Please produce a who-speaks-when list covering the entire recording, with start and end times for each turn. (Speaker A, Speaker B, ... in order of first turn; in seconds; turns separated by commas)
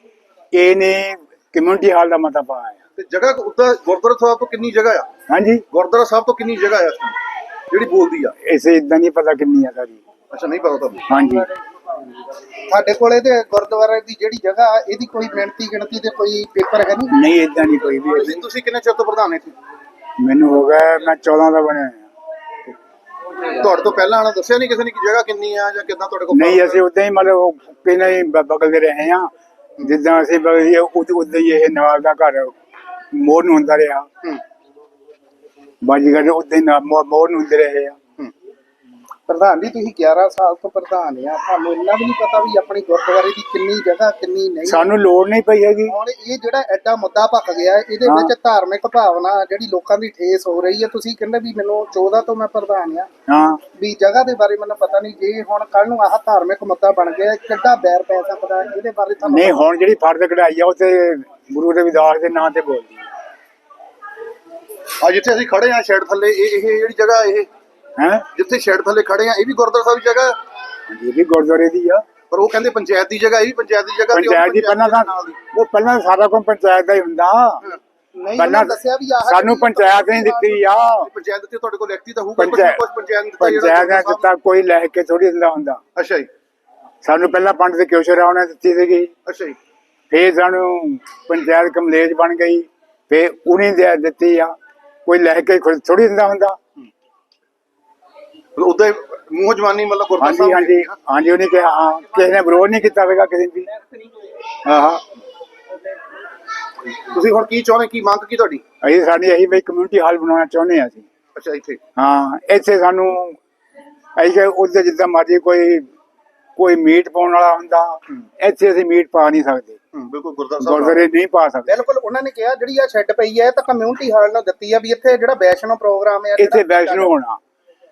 Speaker A: 0.5-2.8, Speaker B: 3.0-5.1, Speaker A: 5.3-5.6, Speaker B: 5.7-7.2, Speaker B: 7.7-8.3, Speaker A: 8.5-10.0, Speaker B: 10.3-11.0, Speaker A: 11.1-11.4, Speaker C: 12.7-17.1, Speaker A: 17.2-18.3, Speaker B: 18.1-19.5, Speaker A: 20.2-22.0, Speaker B: 23.6-26.8, Speaker A: 26.4-29.3, Speaker A: 29.9-32.5, Speaker A: 33.2-34.0, Speaker A: 35.9-38.0, Speaker C: 39.3-44.9, Speaker A: 44.7-45.9, Speaker C: 45.9-53.1, Speaker A: 53.3-53.6, Speaker C: 53.8-59.6, Speaker A: 59.4-63.0, Speaker B: 65.0-67.5, Speaker A: 68.0-68.2, Speaker B: 68.3-70.3, Speaker A: 70.9-72.0, Speaker B: 72.3-75.4, Speaker A: 74.2-77.6, Speaker C: 78.2-80.6, Speaker A: 78.4-78.7, Speaker A: 79.2-81.1, Speaker B: 81.1-84.3, Speaker A: 82.4-82.8, Speaker A: 83.4-85.8, Speaker B: 86.0-86.3, Speaker A: 87.0-89.1, Speaker B: 89.3-89.6, Speaker A: 90.1-94.5, Speaker A: 95.1-96.6, Speaker B: 98.6-100.9, Speaker A: 100.2-103.7, Speaker B: 106.9-108.6, Speaker A: 108.8-111.1, Speaker B: 111.4-111.8, Speaker A: 112.0-113.3, Speaker A: 114.2-115.8, Speaker A: 116.6-119.8, Speaker B: 120.1-121.0, Speaker A: 120.7-121.7, Speaker C: 121.7-127.1, Speaker A: 126.4-127.4